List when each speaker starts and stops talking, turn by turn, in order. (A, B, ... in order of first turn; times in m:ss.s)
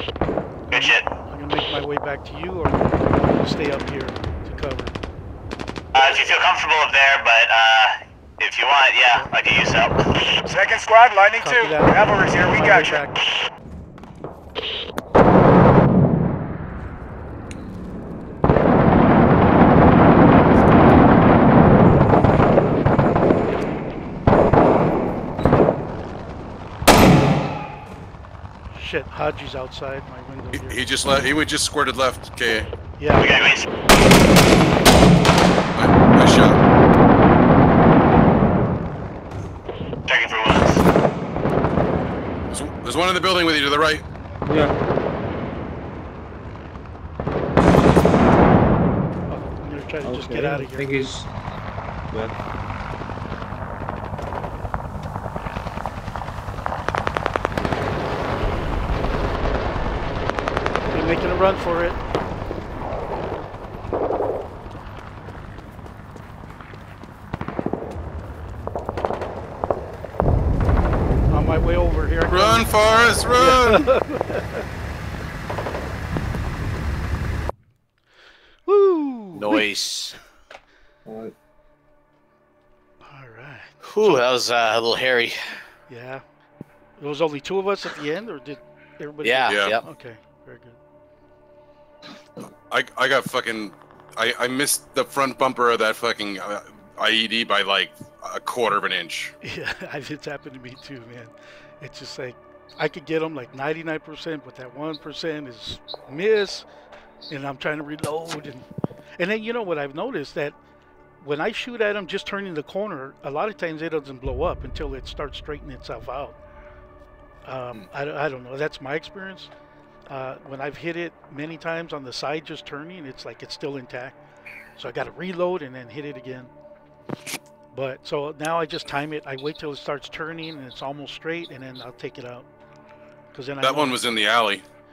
0:00.7-0:05.0 A
0:00.7-0:01.1 B
0:06.0-0:10.0 B
0:10.4-0:13.1 C
0:11.4-0:13.2 A
0:28.7-0:30.9 A
0:30.5-0:32.7 D
0:33.0-0:33.3 A
0:33.2-0:33.6 B
0:35.7-0:36.6 D
0:40.1-0:40.8 B
0:42.5-0:44.0 D
0:44.5-0:44.7 E
0:49.3-0:51.0 A
0:50.0-0:51.3 E
0:52.1-0:52.4 E
1:00.9-1:02.0 A
1:11.3-1:12.7 A
1:12.3-1:13.9 D
1:13.4-1:14.6 A
1:18.7-1:19.7 A
1:19.4-1:20.2 F
1:21.1-1:21.3 E
1:23.0-1:24.2 A
1:23.8-1:25.4 F
1:25.9-1:26.2 A
1:27.0-1:30.8 A
1:29.2-1:29.8 F
1:29.5-1:29.8 D
1:32.7-1:39.3 D
1:39.4-1:46.7 A
1:47.3-1:48.7 A
1:49.2-1:50.6 A
1:51.2-1:56.4 A
1:57.5-1:59.5 A
2:00.1-2:04.2 A
2:04.8-2:06.5 A
2:07.7-2:12.5 A
2:13.3-2:14.0 A
2:13.6-2:14.6 D